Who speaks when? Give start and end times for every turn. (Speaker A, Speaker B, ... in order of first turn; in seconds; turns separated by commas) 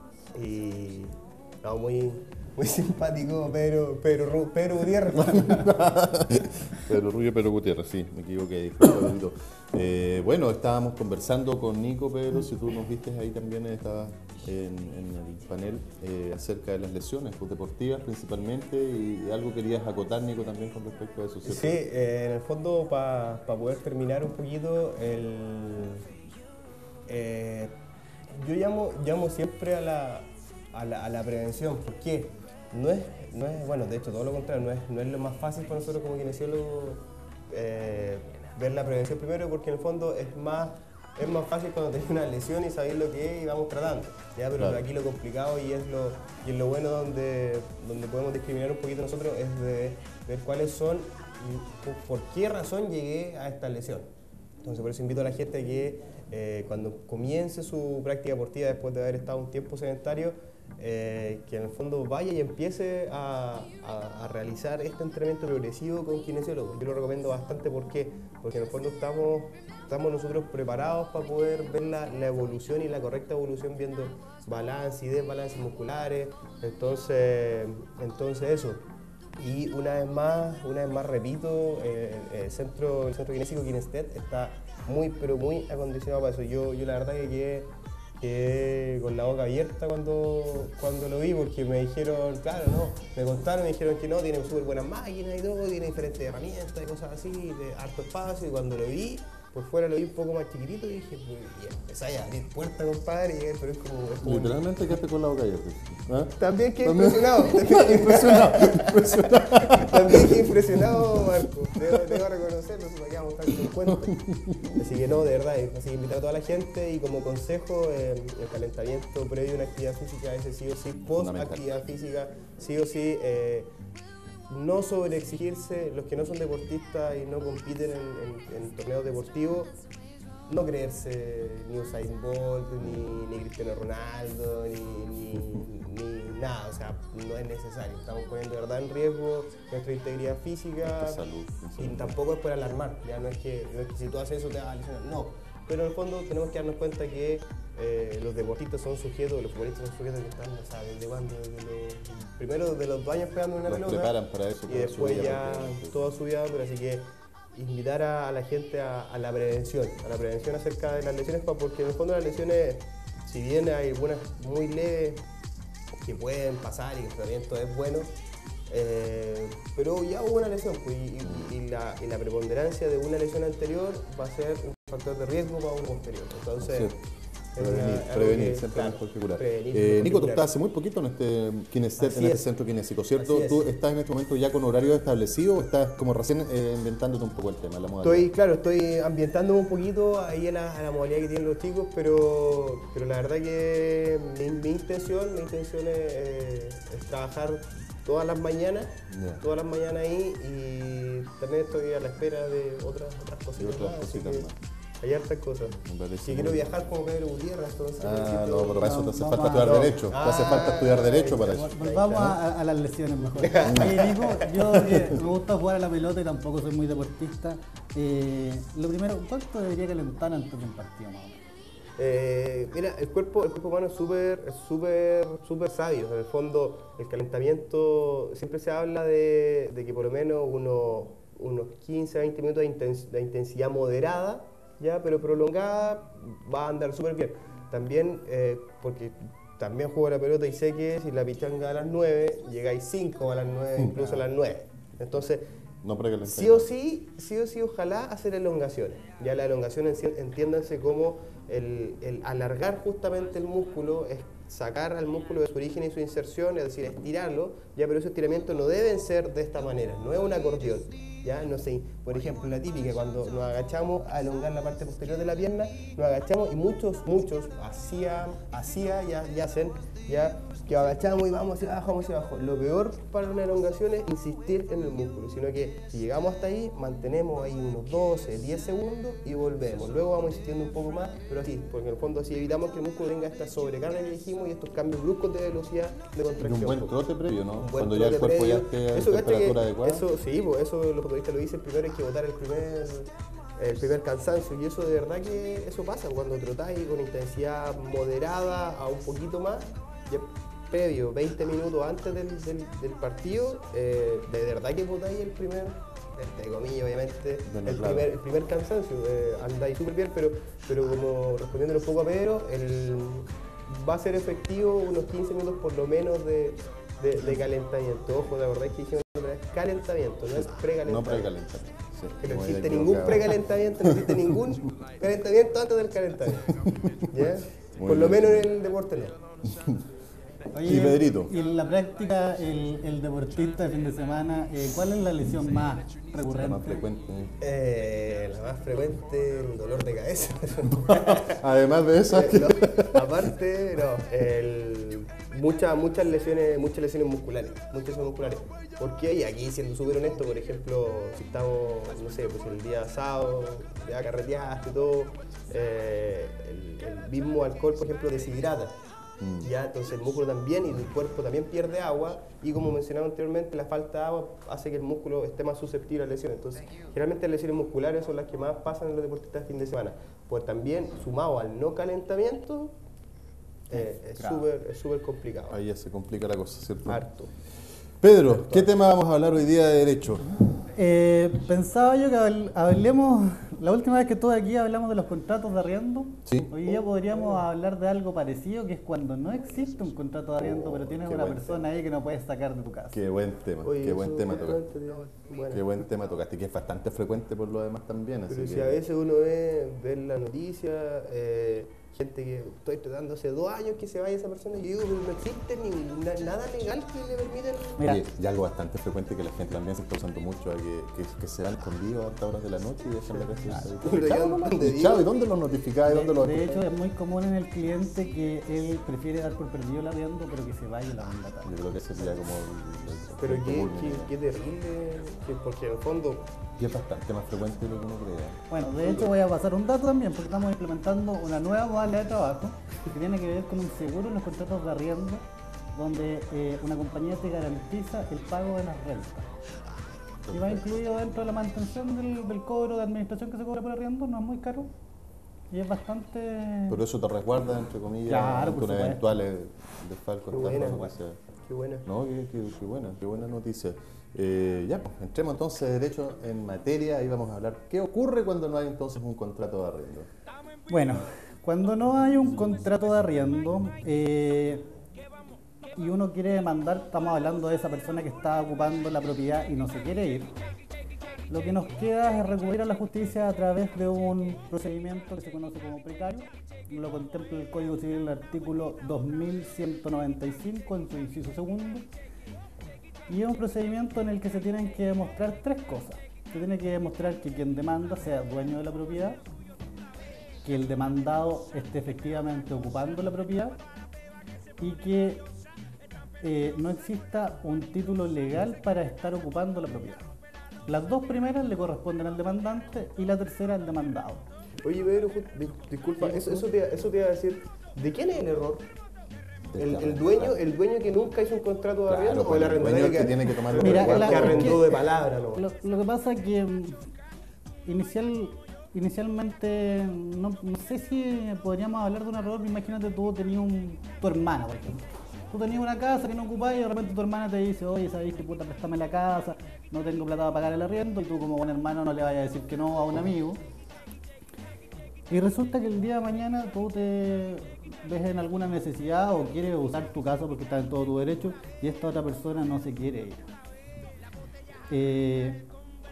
Speaker A: 0.3-5.8, Speaker B: 5.3-21.8, Speaker A: 21.4-26.1, Speaker A: 27.1-27.8, Speaker A: 28.3-54.1, Speaker B: 44.6-44.9, Speaker A: 54.6-78.8, Speaker A: 79.4-104.6, Speaker B: 104.2-111.2, Speaker A: 106.4-114.2, Speaker B: 113.6-114.9, Speaker A: 114.7-123.7, Speaker B: 121.1-121.7, Speaker A: 124.5-129.7, Speaker A: 130.5-141.2, Speaker B: 132.8-133.2, Speaker B: 140.8-142.2, Speaker A: 141.8-165.2, Speaker B: 153.7-156.0, Speaker A: 166.0-168.1, Speaker A: 168.7-176.9, Speaker B: 176.6-176.9, Speaker A: 177.6-180.5, Speaker B: 177.6-188.3, Speaker A: 182.0-182.5, Speaker A: 183.2-183.6, Speaker A: 188.0-204.5, Speaker B: 199.1-199.4, Speaker B: 203.6-204.6, Speaker A: 205.0-209.0, Speaker B: 205.8-206.9, Speaker B: 208.0-211.7, Speaker C: 208.8-209.9, Speaker A: 209.6-212.4, Speaker C: 211.5-221.4, Speaker A: 213.3-214.7, Speaker B: 213.6-214.0, Speaker B: 214.7-215.2, Speaker A: 222.0-245.4, Speaker B: 243.8-244.2, Speaker B: 245.8-246.7, Speaker A: 246.2-286.9, Speaker B: 286.4-290.0, Speaker A: 287.6-321.3, Speaker B: 307.4-308.1, Speaker B: 320.8-324.2, Speaker A: 322.2-326.6, Speaker A: 327.1-329.1, Speaker B: 327.8-328.5, Speaker C: 330.5-336.8, Speaker B: 330.6-331.3, Speaker B: 336.4-337.3, Speaker A: 337.4-341.4, Speaker B: 340.9-343.2, Speaker A: 342.1-358.8, Speaker B: 359.2-359.5, Speaker A: 359.4-372.7, Speaker A: 373.7-375.6, Speaker C: 373.7-374.4, Speaker B: 375.5-377.0, Speaker A: 376.9-377.3, Speaker B: 378.0-380.3, Speaker A: 378.4-378.7, Speaker C: 380.7-392.9, Speaker B: 386.2-386.6, Speaker B: 390.4-391.6, Speaker B: 392.9-394.6, Speaker A: 393.6-395.7, Speaker B: 395.5-398.8, Speaker A: 398.3-407.9, Speaker C: 407.8-408.1, Speaker B: 407.8-416.6, Speaker A: 413.1-415.1, Speaker C: 415.9-421.5, Speaker B: 421.4-424.1, Speaker A: 423.2-426.3, Speaker B: 426.6-429.1, Speaker C: 428.5-439.3, Speaker B: 440.3-440.7, Speaker C: 440.3-444.7, Speaker C: 445.5-446.8, Speaker B: 446.7-451.2, Speaker C: 448.1-449.2, Speaker A: 450.3-450.9, Speaker A: 451.5-451.8, Speaker B: 451.8-460.1, Speaker C: 460.7-464.6, Speaker C: 465.8-470.3, Speaker C: 471.3-481.8, Speaker C: 483.1-489.2, Speaker C: 490.4-493.6, Speaker C: 494.6-495.3, Speaker C: 496.2-500.1, Speaker C: 500.7-504.2, Speaker A: 504.6-508.6, Speaker C: 506.0-506.4, Speaker B: 509.5-510.4, Speaker A: 509.6-515.4, Speaker B: 511.9-514.6, Speaker C: 513.6-516.8, Speaker C: 517.6-533.4, Speaker C: 535.1-543.3, Speaker C: 544.7-545.5